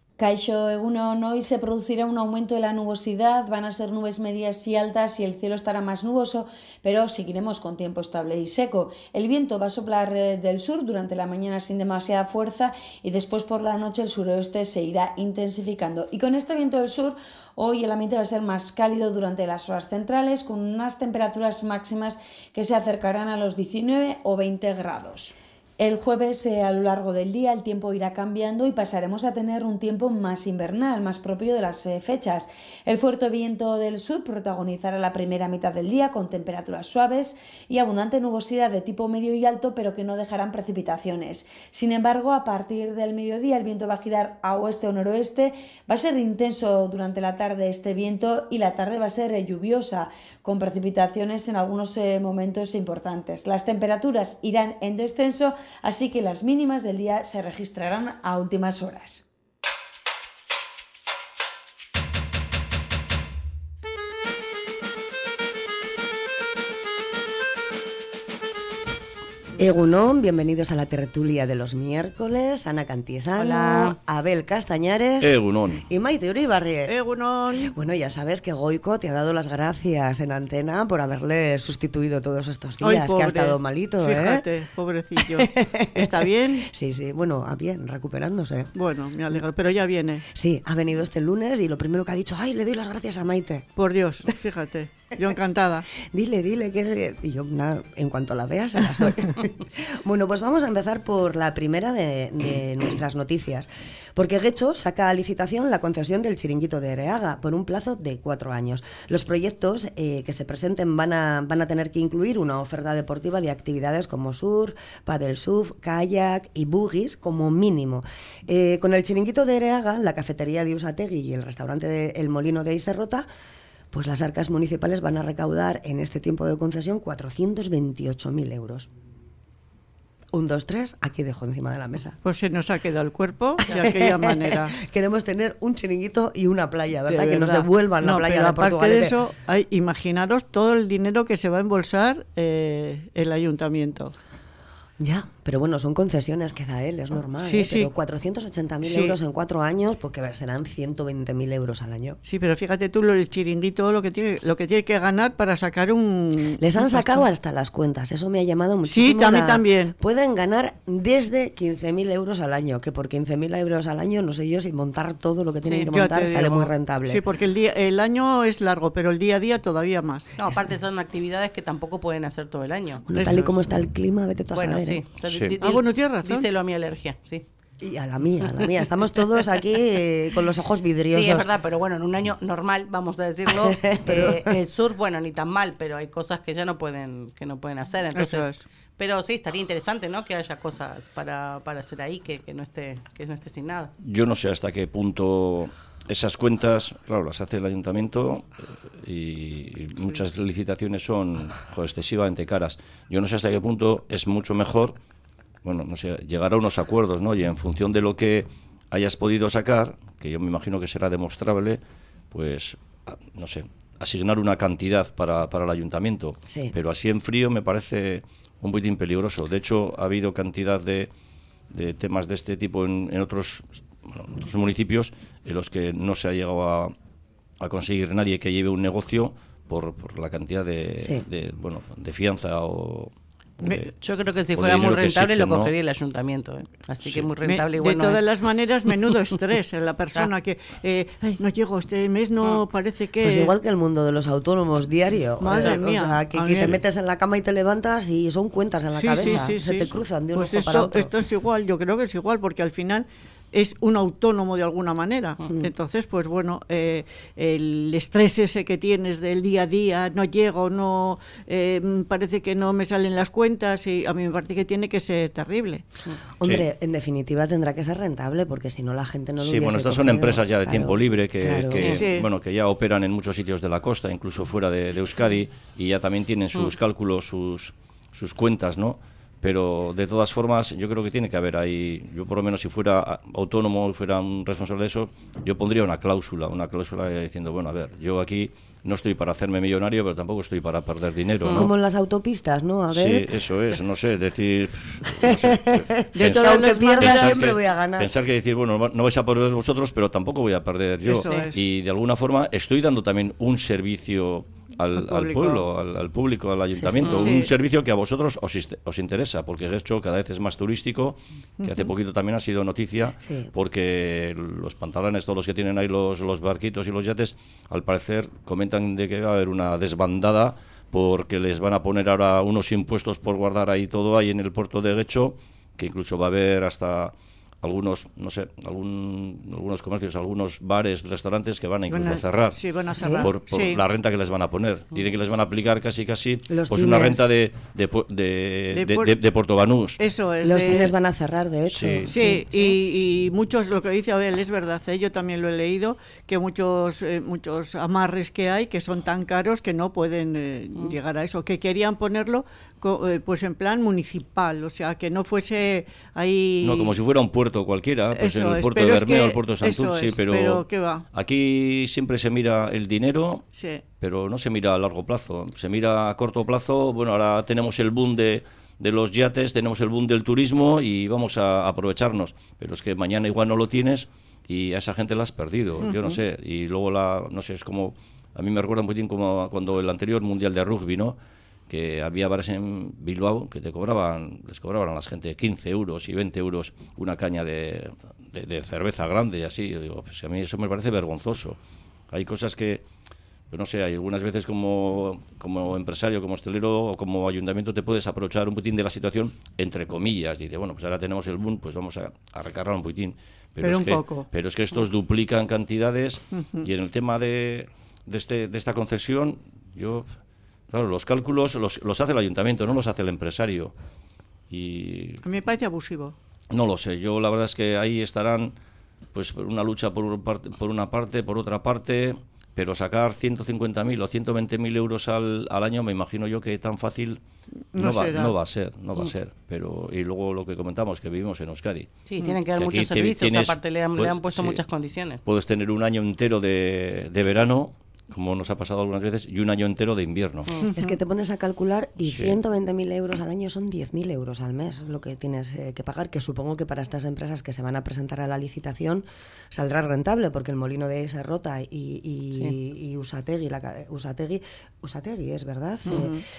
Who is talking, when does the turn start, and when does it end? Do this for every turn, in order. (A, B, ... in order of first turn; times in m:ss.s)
0:00.2-0:59.2 A
1:09.6-1:16.9 B
1:13.4-1:14.0 C
1:15.2-1:15.8 D
1:16.9-1:17.7 E
1:17.6-1:24.4 B
1:22.8-1:26.7 E
1:25.3-1:28.7 B
1:28.7-1:30.2 E
1:30.3-1:33.7 B
1:33.8-1:35.9 E
1:36.0-2:03.2 B
2:03.9-2:08.9 B
2:10.3-2:12.2 B
2:12.2-2:14.7 E
2:13.7-2:19.2 B
2:17.1-2:24.1 E
2:25.0-2:32.2 B
2:27.4-2:27.9 E
2:28.8-2:29.2 E
2:32.2-2:37.1 E
2:36.6-2:47.2 B
2:38.9-2:39.9 E
2:45.6-2:45.9 C
2:45.9-2:50.3 E
2:50.4-2:53.4 C
2:53.1-2:55.0 B
2:53.1-2:53.6 E
2:54.5-2:57.4 C
2:55.2-2:55.6 D
2:55.6-2:56.5 E
2:57.8-3:01.5 B
3:01.1-3:13.9 C
3:03.5-3:04.6 B
3:08.1-3:08.6 E
3:14.0-3:25.0 D
3:25.6-3:31.8 D
3:32.3-3:41.1 D
3:41.7-3:46.9 D
3:47.6-3:53.9 D
3:51.0-3:51.2 B
3:54.0-3:58.2 C
3:54.5-3:55.7 D
3:57.0-3:57.3 D
3:57.4-4:03.5 E
4:03.2-4:11.1 B
4:05.4-4:06.7 E
4:05.5-4:05.8 C
4:08.9-4:25.8 E
4:09.2-4:09.6 C
4:26.4-4:32.0 B
4:29.4-4:51.7 D
4:31.8-4:32.3 E
4:51.5-4:53.3 B
4:52.9-5:32.6 D
4:55.1-4:58.1 B
4:56.2-4:57.5 E
5:01.0-5:01.6 E
5:01.2-5:01.5 C
5:05.0-5:05.6 E
5:06.8-5:07.3 B
5:07.1-5:07.5 E
5:11.6-5:11.9 E
5:13.2-5:13.5 B
5:31.9-5:33.8 E
5:33.0-5:33.3 B
5:33.2-5:40.0 D
5:36.5-5:37.2 B
5:38.7-5:39.1 E
5:40.0-5:40.9 E
5:40.4-5:42.7 B
5:41.7-5:42.1 D
5:42.1-5:56.9 E
5:56.6-6:03.4 D
5:58.1-6:01.0 E
6:03.5-6:03.8 E
6:04.0-6:21.2 D
6:15.8-6:16.2 E
6:21.7-6:31.6 D
6:32.1-6:32.8 D
6:33.5-6:50.1 D
6:43.6-6:44.2 E
6:50.7-6:53.7 D
6:54.5-6:55.2 D
6:55.2-6:56.1 E
6:56.5-6:58.5 D
6:59.1-7:07.2 D
7:07.7-7:08.3 E
7:07.7-7:12.0 D
7:12.1-7:15.2 C
7:12.5-7:14.6 D
7:15.2-7:20.5 D
7:20.7-7:36.2 B
7:22.0-7:22.4 D
7:35.8-7:36.2 E